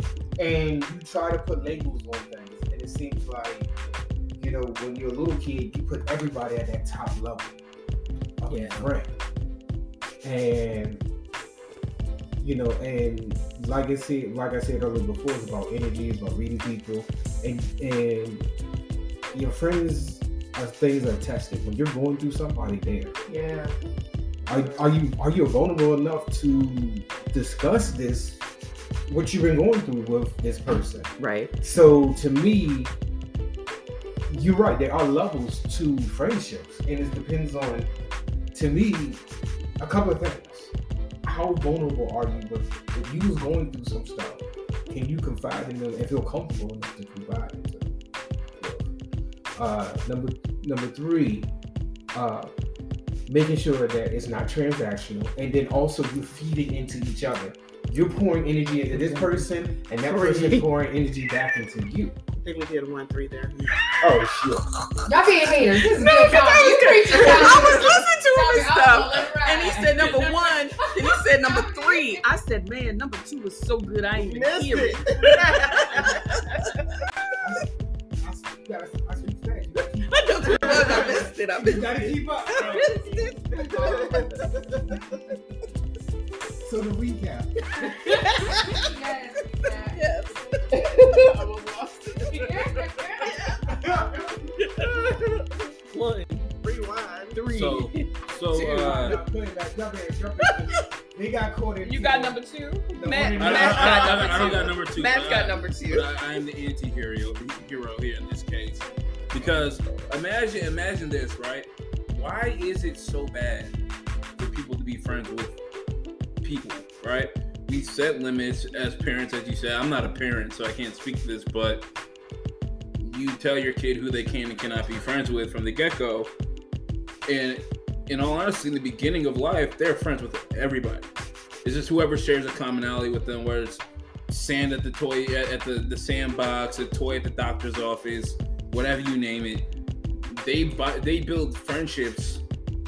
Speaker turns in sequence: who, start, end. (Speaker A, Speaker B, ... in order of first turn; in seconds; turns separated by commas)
Speaker A: 0.4-3.7, Speaker A: 4.4-7.5, Speaker A: 8.4-9.1, Speaker B: 8.5-8.8, Speaker A: 10.2-11.0, Speaker A: 12.4-18.5, Speaker A: 19.3-23.1, Speaker C: 23.3-23.8, Speaker C: 24.5-25.0, Speaker A: 24.5-28.4, Speaker A: 29.1-32.9, Speaker B: 31.2-31.5, Speaker A: 34.3-37.9, Speaker A: 38.5-39.2, Speaker A: 39.8-40.7, Speaker A: 41.2-47.9, Speaker A: 48.6-48.9, Speaker A: 49.5-51.5, Speaker A: 52.1-52.5, Speaker A: 53.3-62.2, Speaker B: 59.0-59.4, Speaker B: 60.1-60.7, Speaker D: 62.4-63.9, Speaker A: 64.0-64.7, Speaker C: 65.1-72.2, Speaker B: 66.0-76.4, Speaker D: 74.2-76.7, Speaker A: 77.4-82.9, Speaker B: 80.1-84.2, Speaker D: 82.5-82.9, Speaker C: 83.5-84.2, Speaker D: 83.7-84.4, Speaker A: 86.6-87.5, Speaker C: 87.8-90.0, Speaker B: 88.1-88.7, Speaker B: 89.9-91.2, Speaker D: 90.8-93.6, Speaker C: 92.3-93.5, Speaker A: 93.7-94.2, Speaker D: 94.6-97.4, Speaker B: 97.3-99.2, Speaker E: 97.5-99.2, Speaker A: 98.6-102.4, Speaker B: 101.8-106.1, Speaker A: 102.9-104.7, Speaker E: 103.4-113.8, Speaker B: 109.4-110.0, Speaker E: 114.4-115.6, Speaker E: 116.4-121.9, Speaker E: 123.0-126.3, Speaker E: 127.3-131.1, Speaker E: 131.6-139.7, Speaker E: 140.2-142.4